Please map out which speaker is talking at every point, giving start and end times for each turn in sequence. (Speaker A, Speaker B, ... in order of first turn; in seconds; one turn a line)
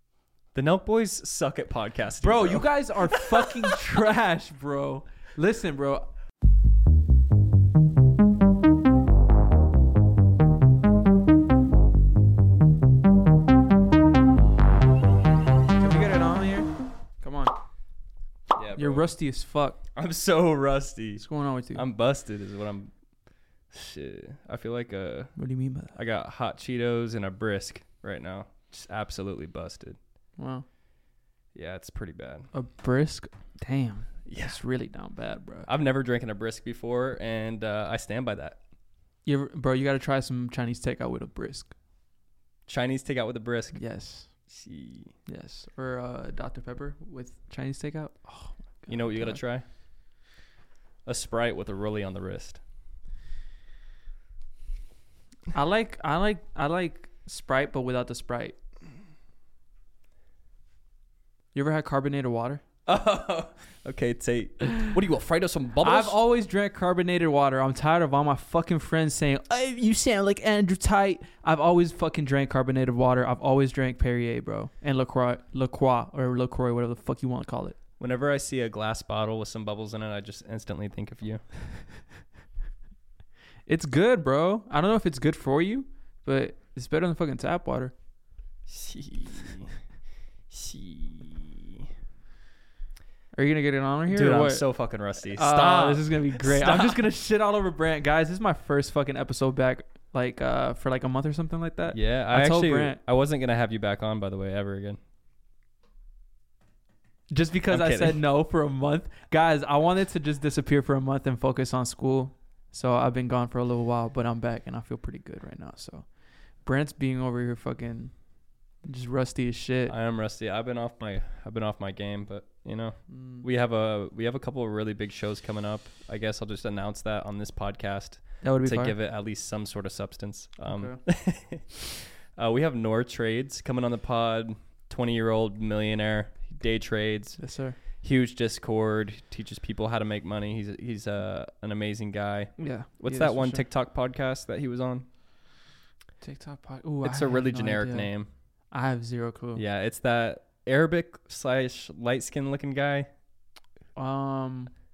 Speaker A: 0.5-3.2
Speaker B: 2.2-6.1
Speaker B: 15.8-17.5
Speaker A: 18.5-19.1
Speaker B: 18.8-19.8
Speaker A: 19.9-22.9
Speaker B: 21.2-21.8
Speaker A: 23.7-25.4
Speaker B: 25.4-25.9
Speaker A: 25.9-30.0
Speaker B: 30.4-30.7
Speaker A: 31.5-32.5
Speaker B: 32.5-35.7
Speaker A: 34.3-34.6
Speaker A: 35.7-38.6
Speaker B: 39.2-41.8
Speaker A: 42.7-45.1
Speaker B: 43.7-44.5
Speaker B: 45.3-49.4
Speaker A: 48.9-49.7
Speaker A: 51.0-52.6
Speaker B: 55.5-58.6
Speaker B: 61.5-62.6
Speaker A: 62.9-66.2
Speaker B: 65.8-77.8
Speaker A: 78.0-81.4
Speaker B: 83.7-87.9
Speaker A: 88.7-89.7
Speaker A: 90.5-91.7
Speaker B: 93.3-94.7
Speaker A: 94.1-97.0
Speaker B: 95.2-103.0
Speaker A: 101.9-105.0
Speaker B: 107.3-119.9
Speaker A: 107.7-108.2
Speaker A: 119.9-145.1
Speaker B: 123.1-123.5
Speaker B: 128.4-128.9
Speaker B: 130.7-131.0
Speaker B: 137.4-137.8
Speaker B: 142.6-143.6
Speaker B: 146.2-148.1
Speaker A: 147.0-148.3
Speaker B: 148.7-149.6
Speaker A: 149.6-153.1
Speaker B: 153.9-154.7